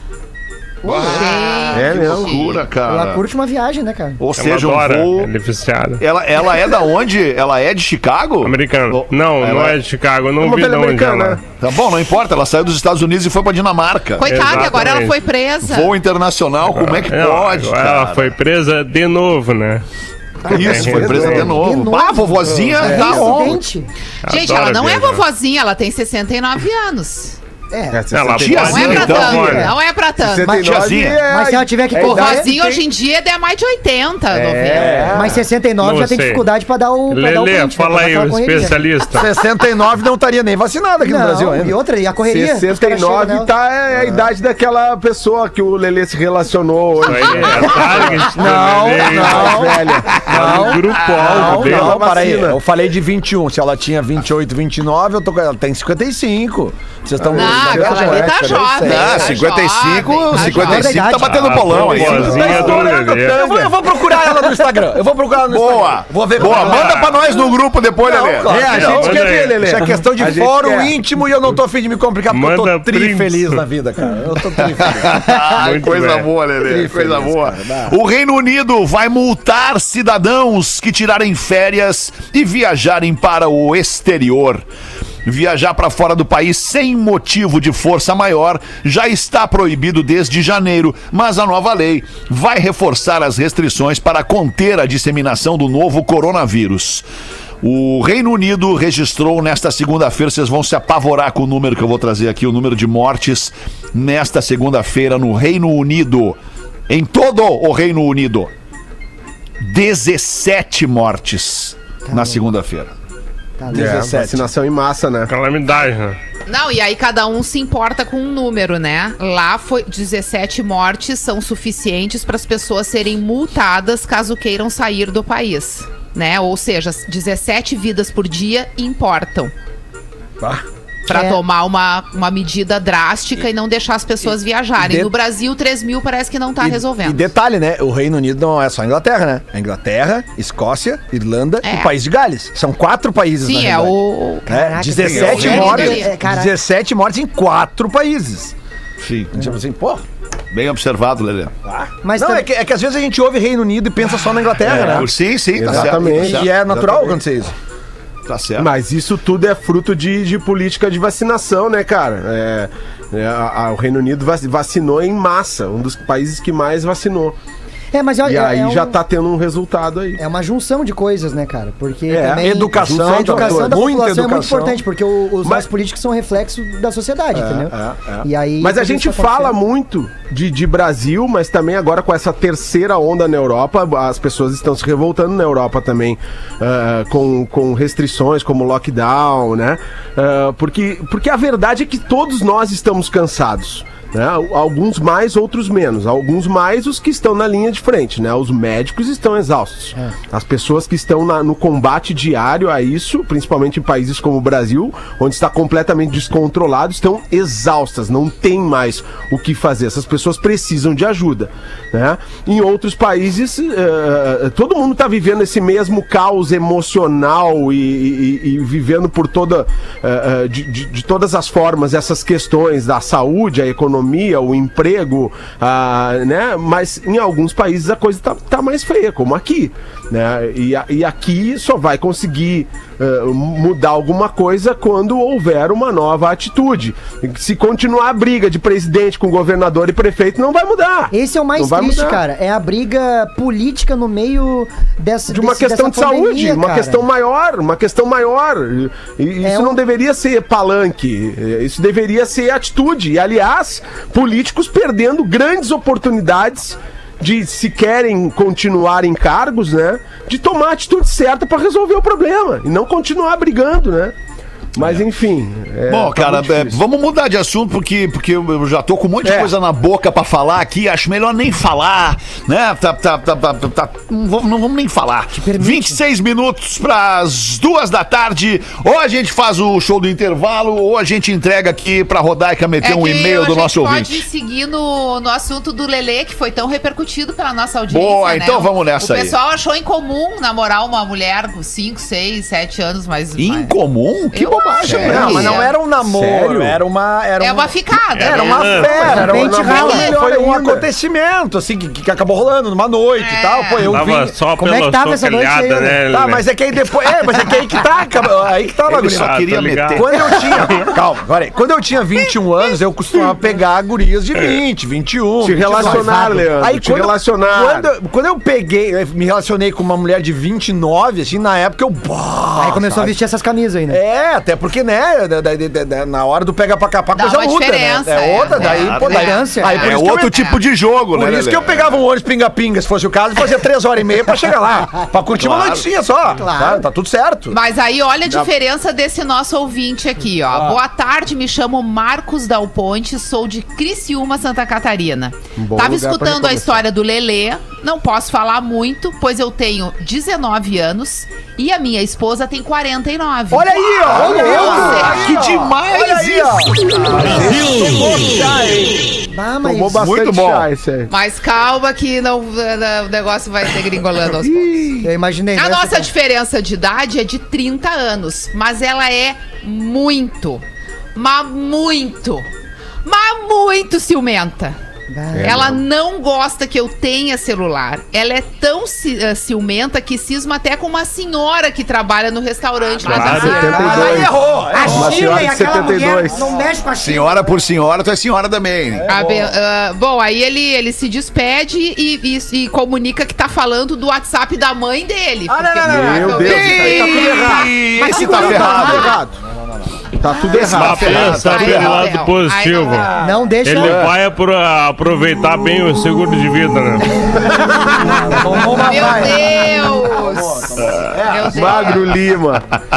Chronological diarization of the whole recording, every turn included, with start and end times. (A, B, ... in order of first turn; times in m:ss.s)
0:00.8-0:03.2 A
0:00.8-0:01.2 B
0:01.0-0:02.6 C
0:01.7-0:02.3 D
0:02.8-0:04.2 B
0:04.2-0:05.3 A
0:04.4-0:06.0 E
0:06.0-0:09.8 A
0:08.4-0:11.4 E
0:10.4-0:11.4 D
0:11.6-0:14.9 A
0:14.2-0:15.9 C
0:14.3-0:15.2 E
0:15.6-0:18.3 A
0:16.7-0:19.8 E
0:20.4-0:23.9 B
0:20.5-0:21.5 E
0:20.5-0:23.6 A
0:20.6-0:21.5 D
0:22.8-0:23.5 D
0:24.2-0:25.2 E
0:24.2-0:27.4 C
0:27.7-0:28.0 B
0:27.9-0:29.6 D
0:28.1-0:29.7 E
0:28.3-0:29.6 A
0:28.6-0:30.7 C
0:29.3-0:29.7 B
0:30.2-0:32.8 D
0:30.5-0:31.2 A
0:31.0-0:32.5 B
0:32.0-0:35.1 C
0:34.3-0:35.4 D
0:34.7-0:35.3 F
0:35.1-0:38.8 B
0:35.8-0:36.4 E
0:37.1-0:39.3 E
0:39.1-0:41.7 F
0:41.0-0:43.5 B
0:42.2-0:52.6 D
0:47.0-0:52.0 E
0:48.1-0:59.4 F
0:49.2-0:49.5 B
0:50.4-0:50.8 B
0:57.2-0:58.1 D
0:57.3-1:01.0 C
0:58.8-1:02.8 A
1:00.4-1:00.7 F
1:00.6-1:01.5 B
1:01.2-1:03.7 E
1:01.6-1:07.5 F
1:05.5-1:08.5 A
1:08.0-1:15.3 F
1:08.5-1:10.9 D
1:08.6-1:09.7 E
1:12.3-1:13.6 E
1:14.6-1:24.6 A
1:15.3-1:16.3 E
1:16.6-1:17.9 F
1:25.2-1:37.0 A
1:37.6-1:46.4 A
1:46.9-1:48.5 A
1:49.6-1:52.9 A
1:52.0-1:52.4 B
1:53.6-1:53.9 B
1:53.7-1:54.5 F
1:53.7-1:55.3 D
1:55.3-1:56.2 E
1:56.5-2:09.5 C
2:11.1-2:17.2 C
2:11.1-2:11.4 B
2:14.8-2:15.1 F
2:16.6-2:28.5 F
2:21.6-2:21.9 C
2:23.4-2:26.1 C
2:24.5-2:26.5 B
2:25.4-2:25.8 A
2:29.0-2:29.4 A
2:29.3-2:30.0 F
2:30.5-2:31.5 A
2:31.6-2:35.1 F
2:32.0-2:32.4 B
2:34.7-2:35.1 D
2:34.7-2:36.5 A
2:35.6-2:37.2 D
2:35.6-2:37.5 F
2:38.2-2:38.7 A
2:38.6-2:47.4 D
2:47.9-2:49.0 B
2:48.2-2:50.2 D
2:50.2-2:59.6 B
2:52.1-2:54.8 F
2:52.4-2:53.8 D
2:57.4-2:58.2 F
2:58.6-4:02.2 D
4:01.1-4:07.0 B
4:05.3-4:24.1 D
4:09.4-4:09.8 B
4:24.7-4:26.8 D
4:25.9-4:44.2 A
4:29.2-4:29.5 D
4:35.3-4:36.0 B
4:42.8-4:53.7 C
4:47.9-4:49.3 A
4:53.4-4:55.6 A
4:54.3-4:55.7 C
4:54.8-5:04.4 F
4:55.0-4:55.4 D
4:56.0-4:56.8 D
4:57.4-4:59.1 C
4:58.2-4:59.1 E
4:58.8-5:00.9 D
4:59.2-5:00.2 B
5:03.2-5:04.0 C
5:03.8-5:06.4 E
5:04.6-5:06.0 B
5:06.1-5:23.2 F
5:08.9-5:10.1 A
5:09.0-5:10.9 E
5:15.4-5:17.9 D
5:15.7-5:16.4 B
5:22.6-5:24.0 B
5:23.9-5:30.3 F
5:27.1-5:30.6 C
5:28.6-5:29.2 A
5:29.0-5:29.8 B
5:29.8-5:32.0 A
5:31.1-5:37.6 F
5:35.4-5:35.8 A
5:36.4-5:36.8 B
5:37.5-5:55.4 C
5:40.5-5:40.8 F
5:45.6-5:46.8 D
5:53.5-5:59.0 F
5:54.1-5:57.9 A
5:57.2-5:58.4 D
5:57.2-5:57.5 B
5:59.3-6:00.0 B
5:59.6-6:01.1 D
5:59.9-6:00.7 A
6:01.1-6:04.9 C
6:04.4-6:05.1 A
6:05.0-6:06.1 B
6:05.5-6:10.6 C
6:11.1-6:12.5 C
6:13.0-6:14.8 C
6:15.1-6:15.7 B
6:15.3-6:15.8 D
6:15.4-6:24.4 C
6:23.0-6:23.9 E
6:23.0-6:26.4 D
6:23.2-6:24.2 B
6:23.6-6:25.9 F
6:24.7-6:27.5 B
6:27.0-6:29.1 A
6:28.9-6:29.6 F
6:29.1-6:37.6 C
6:35.5-6:37.2 F
6:35.7-6:39.4 D
6:36.4-6:39.2 A
6:38.0-6:38.8 B
6:38.5-6:38.9 C
6:38.6-6:38.9 F
6:40.1-6:41.4 D
6:40.5-6:42.1 A
6:40.6-6:43.1 E
6:40.8-6:43.1 C
6:42.9-6:43.4 F
6:43.2-6:44.1 B
6:43.6-6:47.4 E
6:43.8-6:44.1 D
6:47.5-6:48.2 D
6:48.0-6:52.1 F
6:48.6-6:52.2 C
6:48.9-6:49.3 B
6:51.5-6:52.7 D